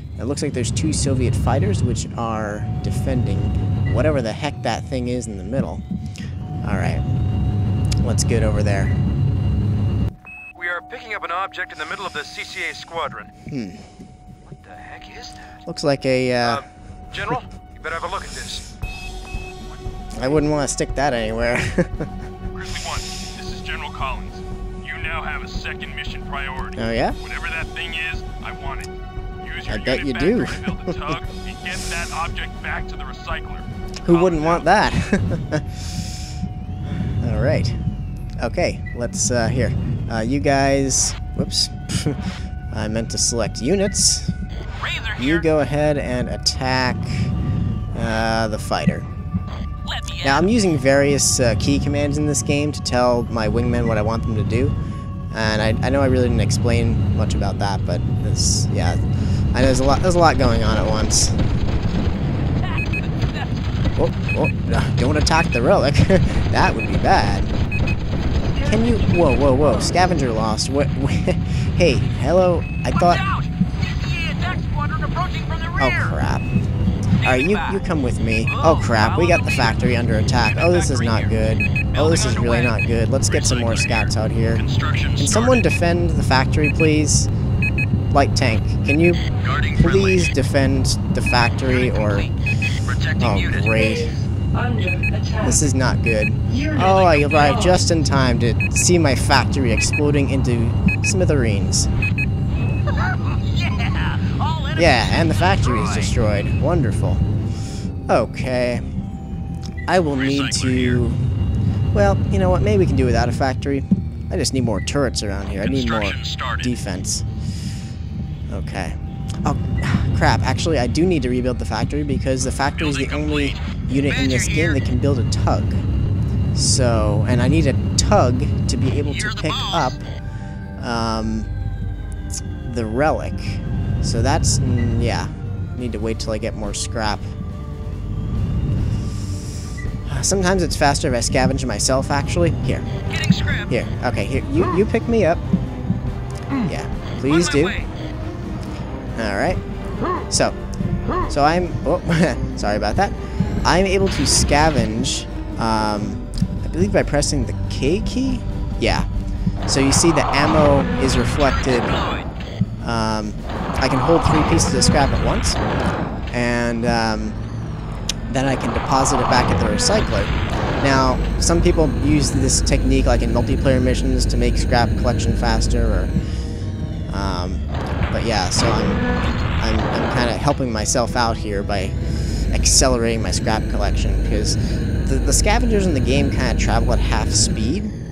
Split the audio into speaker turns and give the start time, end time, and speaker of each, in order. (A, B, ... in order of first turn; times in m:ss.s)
0:00.2-0:05.8 A
0:06.6-0:07.0 A
0:08.0-0:09.0 A
0:10.5-0:13.3 B
0:13.5-0:13.9 A
0:14.5-0:15.4 B
0:15.6-0:16.6 A
0:16.4-0:18.6 B
0:20.1-0:22.1 A
0:22.5-0:34.6 C
0:26.7-0:27.2 A
0:29.7-0:31.2 A
0:34.0-0:35.9 A
0:37.2-0:37.8 A
0:38.4-0:42.2 A
0:42.7-0:44.3 A
0:44.8-0:45.4 D
0:45.2-0:47.3 A
0:47.9-0:49.1 A
0:49.8-0:50.5 D
0:50.2-0:54.7 A
0:55.3-0:59.0 A
0:59.5-1:01.4 A
1:02.6-1:03.6 D
1:04.0-1:07.5 A
1:08.6-1:13.2 A
1:12.9-1:16.1 D
1:15.8-1:16.5 A
1:17.2-1:24.6 A
1:17.2-1:17.8 D
1:18.4-1:19.9 D
1:20.4-1:21.3 D
1:21.9-1:22.7 D
1:23.3-1:25.6 D
1:25.2-1:27.3 A
1:28.1-1:32.3 A
1:29.4-1:30.3 D
1:31.7-1:32.3 D
1:32.8-1:33.7 D
1:33.2-1:34.2 A
1:35.4-1:41.9 A
1:36.8-1:37.5 D
1:42.9-1:46.1 D
1:44.7-1:47.2 A
1:48.1-1:48.8 A
1:49.9-1:51.2 A
1:50.2-1:51.0 D
1:51.9-1:57.2 A
1:55.6-1:56.7 D
1:58.5-2:05.8 A
2:02.8-2:04.8 D
2:06.5-2:10.1 A
2:09.1-2:09.9 D
2:10.8-2:11.5 A
2:12.6-2:17.3 A
2:20.0-2:22.9 A
2:23.1-2:23.7 D
2:23.7-2:25.4 A
2:26.6-2:27.8 A
2:29.2-2:29.6 A
2:30.3-2:30.6 A
2:31.3-2:39.1 A
2:39.7-2:42.0 A
2:41.3-2:42.3 D
2:42.8-2:45.6 A
2:46.3-2:47.4 A
2:48.3-2:56.1 A
2:57.1-2:59.0 A
2:59.6-3:02.0 A
3:02.5-3:07.9 A